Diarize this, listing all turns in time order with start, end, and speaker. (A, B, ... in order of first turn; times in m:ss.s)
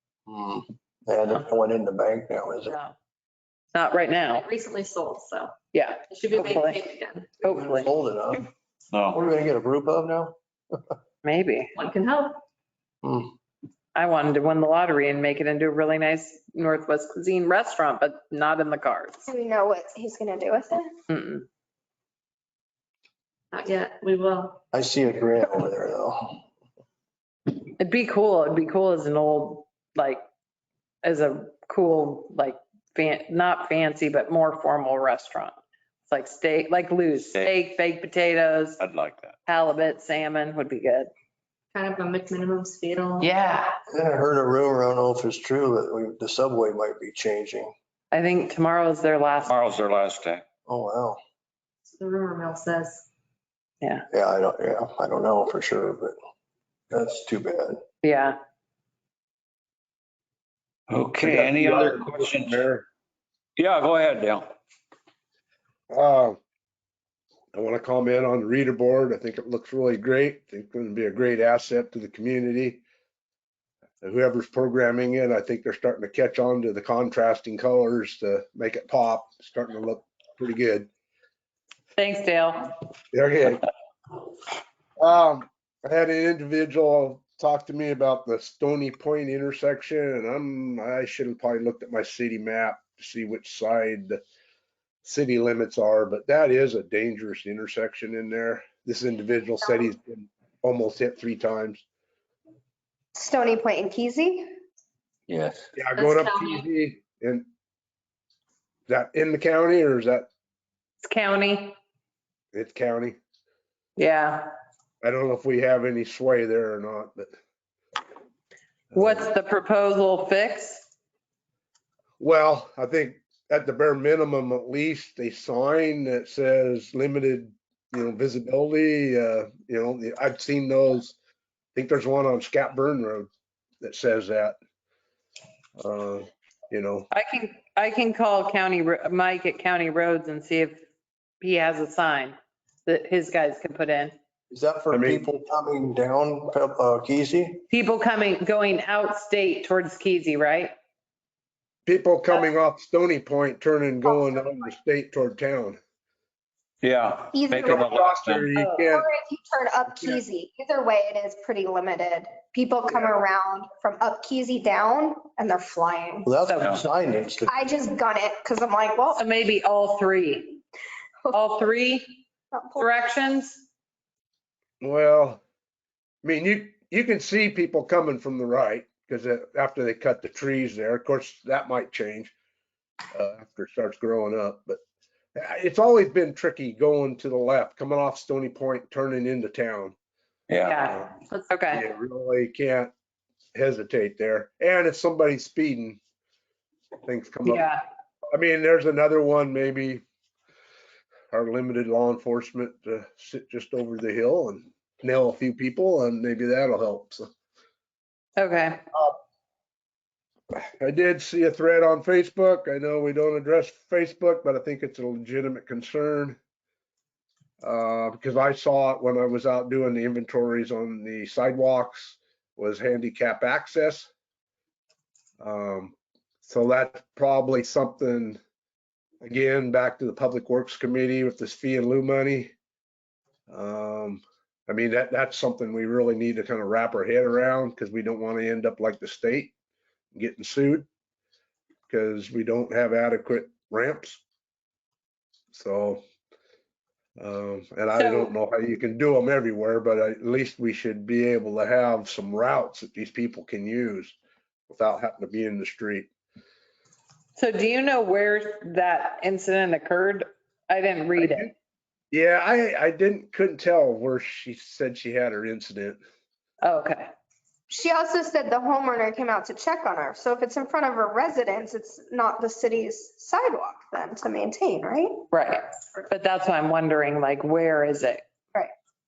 0:00.3-0:02.7 A
0:02.7-0:02.9 B
0:03.7-0:04.4 B
0:04.3-0:05.5 C
0:05.7-0:06.8 B
0:06.1-0:07.4 C
0:07.4-0:08.5 A
0:07.4-0:07.9 B
0:08.9-0:09.2 D
0:09.1-0:10.9 A
0:11.2-0:11.7 B
0:11.7-0:12.4 C
0:13.0-0:13.3 A
0:13.9-0:19.2 B
0:19.2-0:20.9 E
0:21.1-0:21.4 B
0:23.5-0:24.6 C
0:24.7-0:26.4 A
0:27.8-0:30.2 B
0:31.0-0:35.5 B
0:36.1-0:38.8 B
0:38.8-0:39.4 D
0:39.5-0:41.1 B
0:41.7-0:43.3 C
0:43.2-0:43.7 B
0:43.9-0:47.7 A
0:48.1-0:49.6 B
0:49.5-0:50.4 D
0:50.7-0:51.2 A
0:51.9-0:53.1 C
0:54.1-0:56.2 A
0:56.9-0:57.8 A
0:58.0-0:58.4 B
1:00.9-1:02.7 D
1:01.2-1:02.8 F
1:03.6-1:04.5 D
1:05.9-1:06.4 F
1:07.5-1:12.8 F
1:14.0-1:20.9 F
1:22.0-1:22.7 B
1:23.1-1:23.6 F
1:25.0-1:34.2 F
1:35.0-1:41.8 F
1:43.1-1:44.5 E
1:45.3-1:45.7 D
1:45.8-1:47.4 F
1:46.0-1:46.6 C
1:48.9-1:50.3 F
1:51.0-1:51.8 B
1:52.5-1:53.2 F
1:54.0-1:54.5 B
1:55.0-1:57.3 F
1:58.9-1:59.3 F
1:58.9-2:00.8 B
2:02.2-2:11.1 F
2:11.7-2:13.3 F
2:13.8-2:14.6 F
2:15.8-2:17.1 F
2:17.1-2:20.8 B
2:21.4-2:24.1 B
2:24.5-2:27.6 A
2:24.9-2:25.3 F
2:27.7-2:30.7 B
2:31.8-2:35.8 F
2:34.1-2:34.6 E
2:36.8-2:38.5 D
2:37.3-2:37.9 E
2:37.6-2:39.1 F
2:38.6-2:38.8 B
2:38.9-2:46.3 E
2:46.2-2:47.5 A
2:46.5-2:46.7 B
2:47.5-2:49.2 E
2:49.2-2:50.6 B
2:51.2-2:51.5 E
2:51.3-2:52.2 B
2:52.5-2:52.9 E
2:52.8-2:53.6 B
2:54.8-2:55.4 F
2:56.2-3:02.3 F
3:03.1-3:04.8 F
3:05.4-3:09.9 F
3:10.5-3:10.8 D
3:10.6-3:11.8 B
3:11.7-3:12.9 F
3:13.5-3:16.0 F
3:17.0-3:17.7 F
3:17.4-3:17.8 B
3:18.3-3:20.0 F
3:21.3-3:27.2 F
3:28.4-3:28.8 B
3:30.5-3:36.4 F
3:37.6-3:44.1 F
3:45.4-3:48.4 F
3:49.2-3:52.5 F
3:53.5-3:59.5 F
4:00.1-4:00.9 F
4:01.9-4:04.2 F
4:05.5-4:06.0 F
4:07.2-4:14.2 F
4:08.0-4:08.3 B
4:14.7-4:16.1 F
4:17.4-4:21.5 B
4:21.2-4:21.5 F
4:22.1-4:26.0 F
4:26.6-4:27.1 B
4:27.7-4:35.2 E
4:35.3-4:38.2 B